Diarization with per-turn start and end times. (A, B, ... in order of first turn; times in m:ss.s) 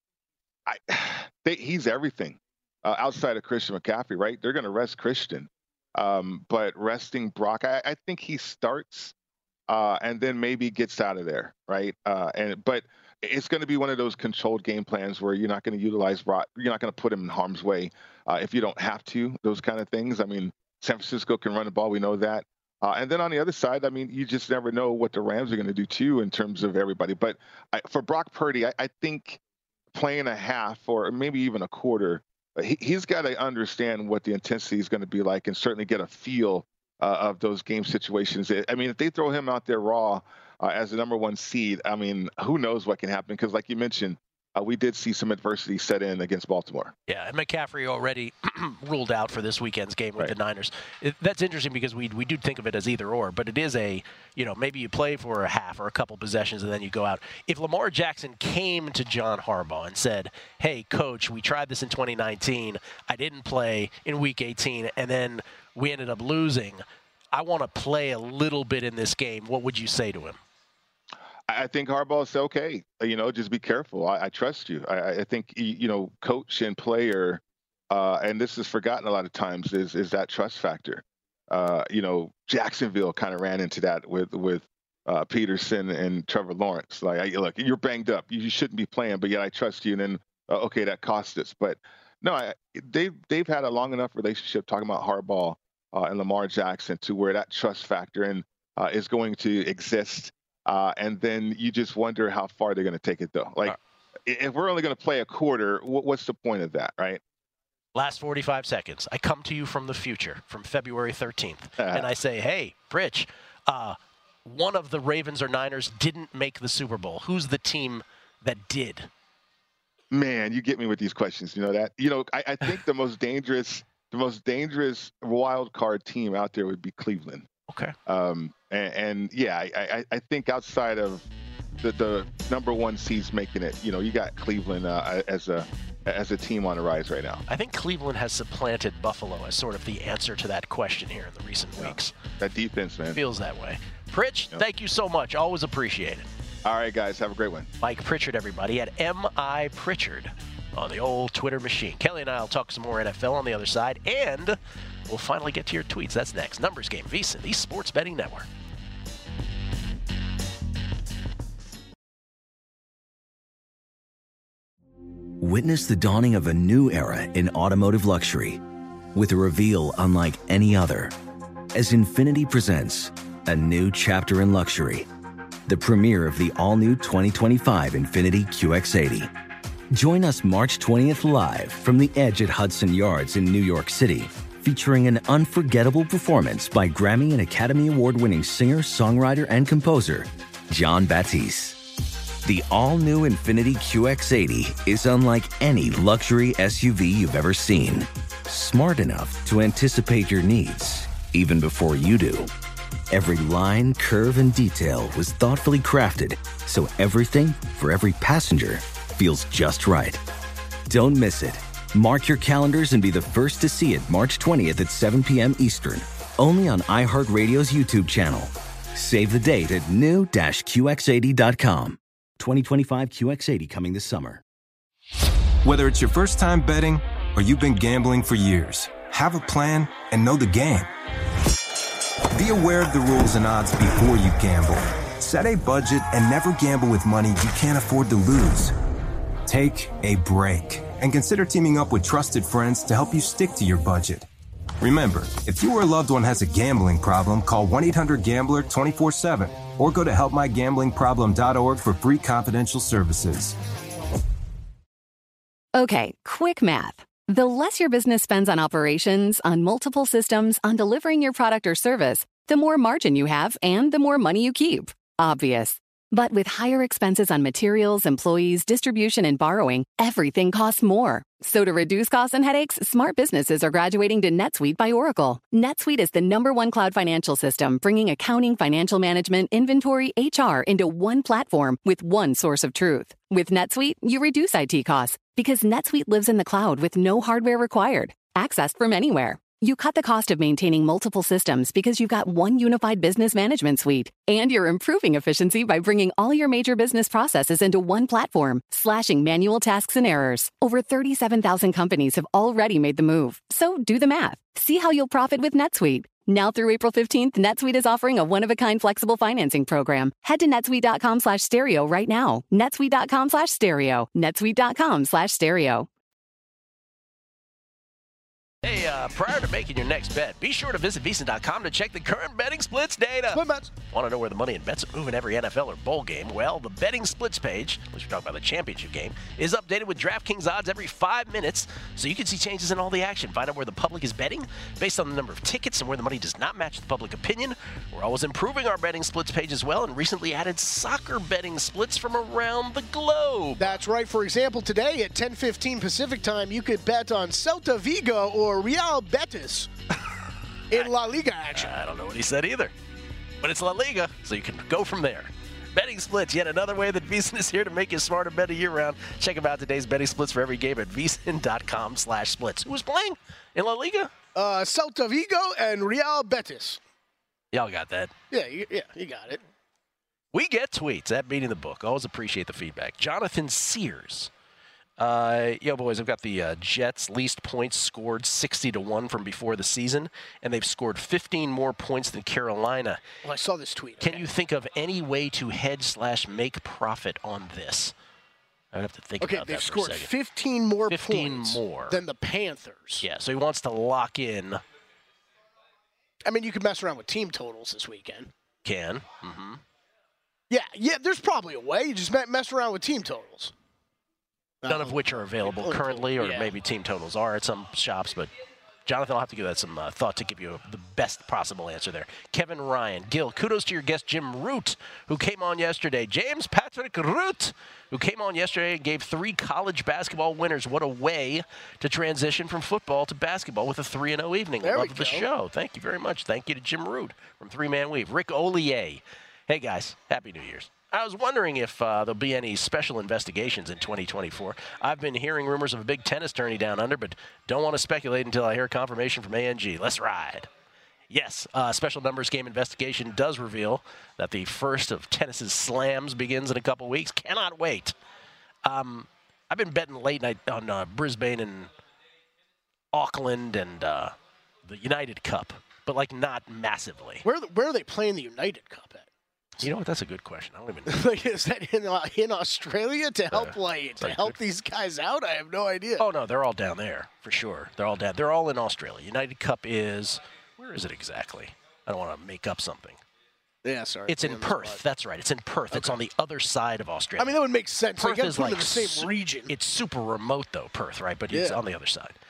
0:00.6-0:09.1 A
0:09.7-0:29.4 A
0:29.9-0:46.9 A
0:47.1-1:10.4 B
1:11.5-1:47.2 A
1:47.9-1:59.1 B
1:51.8-1:52.1 A
2:00.1-2:07.5 A
2:07.7-2:08.0 B
2:08.0-2:11.3 A
2:11.8-2:17.4 A
2:17.5-2:22.2 B
2:21.8-2:23.2 A
2:23.1-2:26.3 B
2:26.6-2:27.7 A
2:27.8-2:34.6 B
2:35.1-2:38.5 B
2:45.4-2:48.6 C
2:49.1-2:51.2 C
2:51.7-2:55.1 C
2:55.7-2:59.3 C
2:59.9-3:11.9 C
3:12.4-3:22.5 C
3:23.1-3:30.2 C
3:30.9-3:44.4 C
3:45.6-3:50.9 D
3:52.3-3:58.7 D
3:59.4-4:04.2 D
4:04.8-4:13.6 D
4:15.7-5:15.9 E
5:18.6-5:43.8 B
5:23.3-5:23.7 F
5:43.6-5:49.7 F
5:50.7-5:51.7 F
5:51.5-5:52.7 B
5:53.4-6:04.1 B
6:04.3-6:06.8 F
6:07.5-6:08.1 B
6:08.3-6:09.4 F
6:10.3-6:14.3 B
6:15.0-6:23.1 B
6:23.2-6:24.3 F
6:24.0-6:27.9 B
6:28.7-6:30.1 B
6:29.2-6:33.0 F
6:30.9-6:32.0 B
6:33.0-6:34.6 B
6:36.2-6:38.3 F
6:38.6-6:39.6 B
6:40.5-6:43.5 F
6:44.6-6:46.5 F
6:44.6-6:48.3 B
6:48.8-7:20.5 B
7:04.6-7:05.3 F
7:21.1-7:28.0 B
7:28.6-7:31.7 B
7:32.9-7:34.1 B
7:34.6-7:37.2 B
7:37.2-7:39.1 F
7:39.6-7:41.1 B
7:40.8-7:46.1 F
7:43.3-7:44.4 B
7:46.0-7:53.0 B
7:53.6-7:54.8 F
7:54.1-7:57.4 B
7:55.7-7:56.0 F
7:57.2-7:59.5 F
7:58.0-8:02.2 B
8:01.3-8:01.6 F